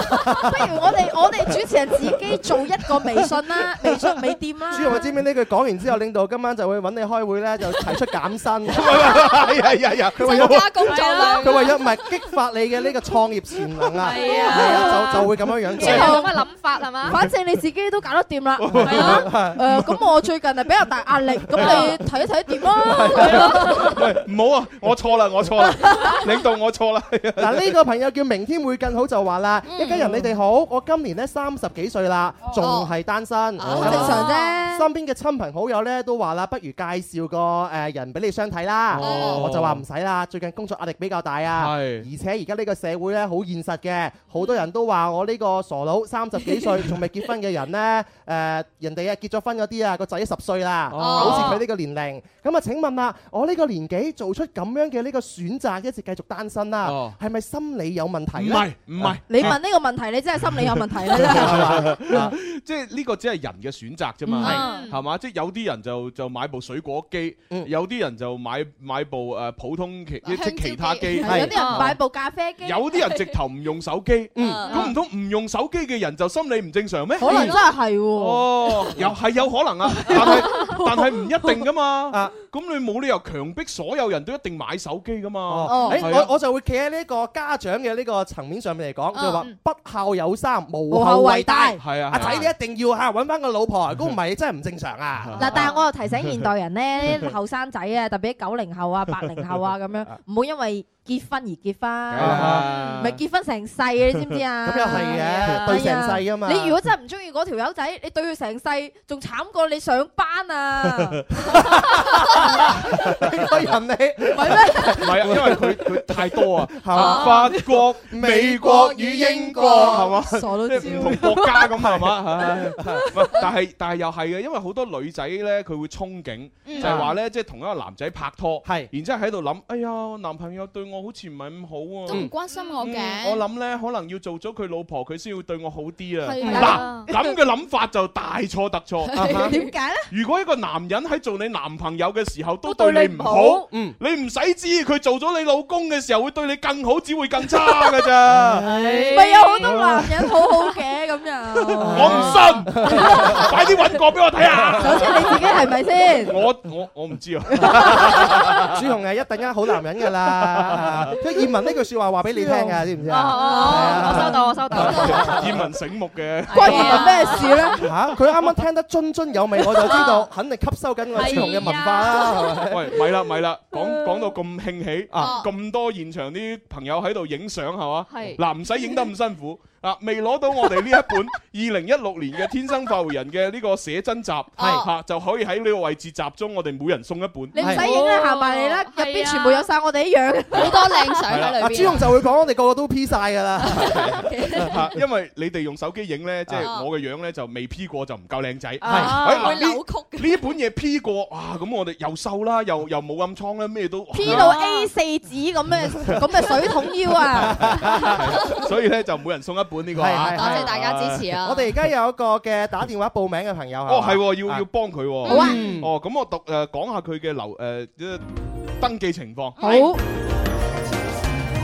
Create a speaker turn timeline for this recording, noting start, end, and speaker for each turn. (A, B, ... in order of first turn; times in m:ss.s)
0:00.2-0:04.9 A
0:04.7-0:16.3 B
0:08.7-0:10.6 C
0:10.2-0:11.8 D
0:10.9-0:11.6 E
0:14.0-0:15.2 E
0:14.3-0:15.2 A
0:15.7-0:17.2 E
0:15.8-0:16.4 A
0:15.8-0:16.1 C
0:17.0-0:23.9 A
0:18.6-0:20.0 C
0:18.7-0:19.6 B
0:18.9-0:19.2 E
0:21.5-0:21.9 C
0:21.6-0:21.8 B
0:22.8-0:23.7 B
0:23.1-0:27.7 C
0:25.8-0:26.2 A
0:27.4-0:59.6 B
0:29.6-0:30.1 D
0:32.6-0:32.9 D
0:33.6-0:34.6 D
0:33.7-0:34.1 C
0:33.8-0:34.9 A
0:38.9-0:39.8 C
0:39.0-0:39.4 D
0:41.5-0:42.1 C
0:50.9-0:51.6 C
0:51.0-0:51.6 D
0:56.8-0:57.2 C
0:58.3-0:59.6 C
0:59.3-1:02.2 A
1:01.1-1:11.9 C
1:01.2-1:02.3 B
1:04.4-1:04.8 A
1:04.4-1:04.8 D
1:04.4-1:05.0 E
1:10.2-1:11.2 D
1:11.2-1:13.0 A
1:11.2-1:11.6 B
1:11.5-1:11.9 E
1:12.6-1:17.6 C
1:14.3-1:14.7 B
1:14.4-1:14.8 D
1:17.2-1:18.9 A
1:17.2-1:17.6 B
1:18.1-1:26.3 C
1:19.9-1:21.5 A
1:22.1-1:22.3 B
1:25.5-1:35.6 B
1:25.6-1:26.1 A
1:29.1-1:29.4 D
1:30.9-1:31.8 A
1:31.8-1:32.5 C
1:35.2-1:35.7 C
1:35.4-1:51.2 A
1:42.1-1:43.2 C
1:42.2-1:42.7 B
1:44.6-1:46.8 B
1:51.4-2:00.1 B
1:52.4-1:52.7 A
1:54.3-1:55.0 A
1:55.0-2:19.4 C
1:57.0-1:57.4 D
1:57.0-1:57.3 A
1:59.5-2:01.7 A
2:00.8-2:03.1 B
2:02.4-2:03.1 A
2:06.6-2:07.1 D
2:06.8-2:07.1 B
2:08.6-2:08.9 B
2:12.1-2:13.4 D
2:16.2-2:17.3 A
2:16.4-2:16.9 B
2:16.5-2:17.1 E
2:19.1-2:19.7 D
2:19.1-2:19.5 B
2:19.2-2:20.1 A
2:20.1-2:28.7 C
2:22.7-2:23.6 E
2:23.6-2:24.0 B
2:28.2-2:29.1 B
2:28.6-2:29.5 E
2:29.1-2:33.5 A
2:29.6-2:30.4 C
2:31.7-2:38.8 C
2:31.8-2:33.6 B
2:34.6-2:35.3 B
2:34.7-2:36.4 A
2:37.6-2:45.7 B
2:37.6-2:38.5 A
2:40.2-2:41.2 C
2:42.4-2:42.6 A
2:43.1-2:45.4 E
2:43.3-2:44.3 A
2:44.1-2:47.4 C
2:44.8-2:45.3 D
2:46.5-2:47.7 E
2:46.5-2:47.8 A
2:46.6-2:47.0 B
2:47.8-2:53.0 B
2:51.1-2:52.6 E
2:51.2-2:51.9 C
2:52.6-3:07.7 C
2:55.1-2:55.4 B
2:55.2-2:55.5 D
2:58.1-2:58.4 E
3:04.6-3:04.9 D
3:04.6-3:04.9 B
3:07.5-3:11.0 A
3:07.6-3:09.7 E
3:07.6-3:07.8 B
3:10.5-3:12.1 D
3:11.3-3:11.9 C
3:11.6-3:14.7 B
3:13.8-3:24.6 C
3:14.2-3:14.8 D
3:16.6-3:16.9 D
3:18.8-3:19.3 B
3:18.8-3:19.5 E
3:18.9-3:20.4 D
3:24.1-3:28.0 A
3:24.2-3:24.6 D
3:27.4-3:28.3 B
3:27.6-3:31.3 C
3:29.9-3:30.7 B
3:30.3-3:31.7 D
3:31.4-3:34.6 B
3:33.9-3:38.2 C
3:35.2-3:35.7 D
3:35.3-3:35.9 B
3:35.3-3:35.6 A
3:38.8-3:39.9 C
3:39.6-3:39.9 D
3:39.6-3:40.0 A